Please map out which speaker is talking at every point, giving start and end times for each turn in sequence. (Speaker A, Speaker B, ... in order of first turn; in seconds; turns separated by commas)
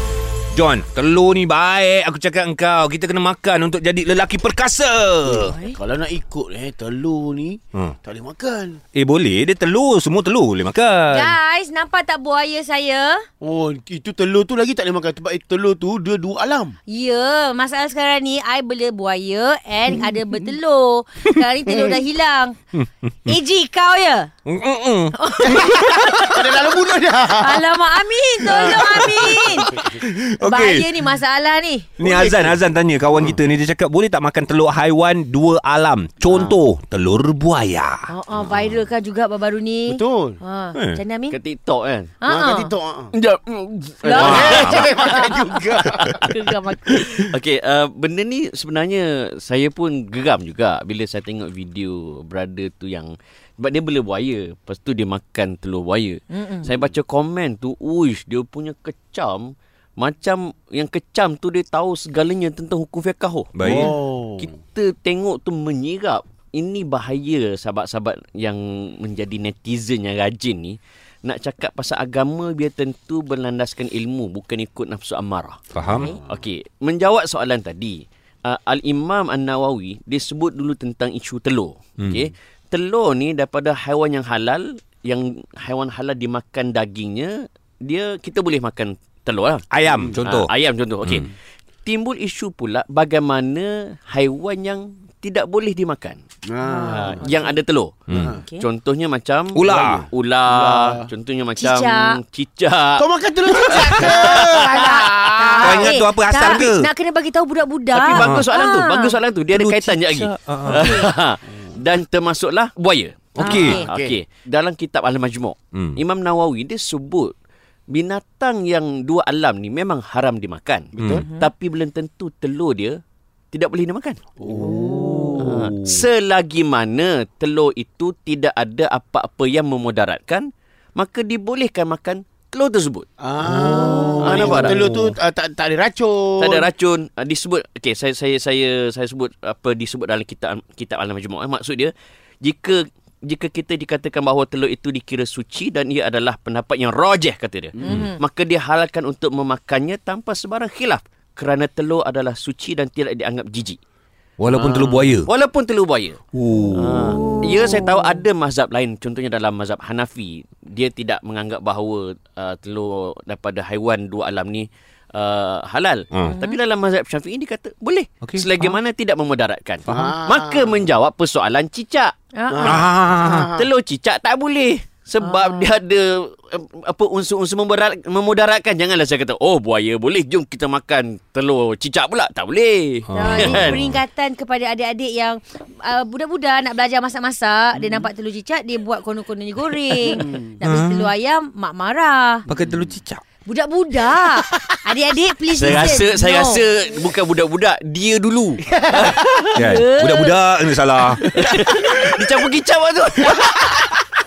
Speaker A: 0.5-5.5, Speaker B: 5.4-5.8, Speaker C: 5.7-8.8, Speaker A: 8.9-11.3, Speaker B: 11.1-13.2, Speaker C: 13.4-16.7, Speaker B: 16.9-22.6, Speaker A: 22.7-23.3, Speaker B: 23.3-24.3, Speaker A: 24.5-26.3, Speaker B: 25.1-26.5, Speaker C: 26.3-27.8, Speaker B: 27.4-29.8, Speaker C: 28.4-28.7, Speaker A: 28.5-30.9, Speaker B: 30.4-32.5, Speaker A: 32.0-38.1, Speaker B: 38.1-41.4, Speaker C: 39.9-40.4, Speaker A: 40.7-41.0, Speaker D: 41.3-42.1, Speaker B: 42.2-42.7, Speaker C: 42.2-43.1, Speaker D: 43.1-45.1, Speaker B: 44.0-47.3, Speaker C: 44.0-46.3, Speaker A: 44.2-44.9, Speaker D: 45.8-46.2, Speaker D: 46.9-75.6, Speaker B: 56.3-56.8, Speaker A: 63.5-63.9, Speaker C: 63.6-64.5, Speaker A: 75.7-76.1, Speaker B: 75.9-76.1, Speaker D: 76.2-89.7, Speaker A: 89.7-90.5, Speaker C: 89.9-90.2, Speaker D: 90.2-91.3, Speaker D: 91.8-96.2, Speaker C: 96.5-97.2, Speaker B: 96.6-97.5, Speaker D: 96.9-98.1, Speaker A: 98.1-98.4, Speaker C: 98.1-98.4, Speaker B: 98.3-98.6, Speaker D: 98.6-103.0, Speaker A: 99.5-100.0, Speaker C: 99.7-101.1, Speaker B: 101.6-102.2, Speaker C: 103.0-105.9, Speaker D: 103.7-104.9, Speaker B: 104.0-109.2, Speaker A: 105.6-106.9, Speaker D: 107.9-117.3, Speaker A: 108.1-108.5, Speaker A: 109.5-111.0, Speaker B: 110.8-111.0, Speaker A: 113.3-113.8, Speaker B: 113.4-113.8, Speaker C: 113.7-114.2, Speaker A: 115.7-116.0, Speaker D: 117.9-123.0, Speaker C: 121.0-121.2, Speaker A: 121.0-121.2, Speaker B: 121.2-121.5, Speaker D: 123.5-124.2, Speaker C: 124.4-125.5, Speaker A: 124.5-126.0, Speaker D: 125.4-133.1, Speaker C: 133.2-136.7, Speaker A: 133.4-135.2, Speaker D: 134.2-134.8, Speaker D: 136.4-153.8, Speaker C: 147.8-148.1, Speaker A: 147.8-148.1, Speaker B: 147.9-148.2, Speaker A: 154.4-155.3, Speaker C: 154.4-155.2, Speaker D: 155.2-156.2, Speaker A: 156.3-157.3, Speaker D: 156.7-172.1, Speaker B: 166.2-166.6, Speaker A: 168.2-168.8, Speaker A: 169.9-170.1, Speaker C: 169.9-170.8, Speaker B: 172.3-172.8, Speaker C: 172.5-173.7, Speaker A: 172.6-173.5, Speaker D: 173.5-183.8, Speaker B: 175.2-175.7, Speaker A: 183.1-184.0, Speaker B: 183.1-192.5, Speaker C: 190.0-190.4, Speaker A: 190.6-191.1, Speaker A: 192.5-193.2, Speaker C: 192.5-192.9, Speaker B: 193.4-196.6, Speaker D: 195.5-199.6, Speaker C: 198.9-199.2, Speaker A: 199.5-201.2, Speaker B: 199.6-200.4, Speaker D: 201.3-204.0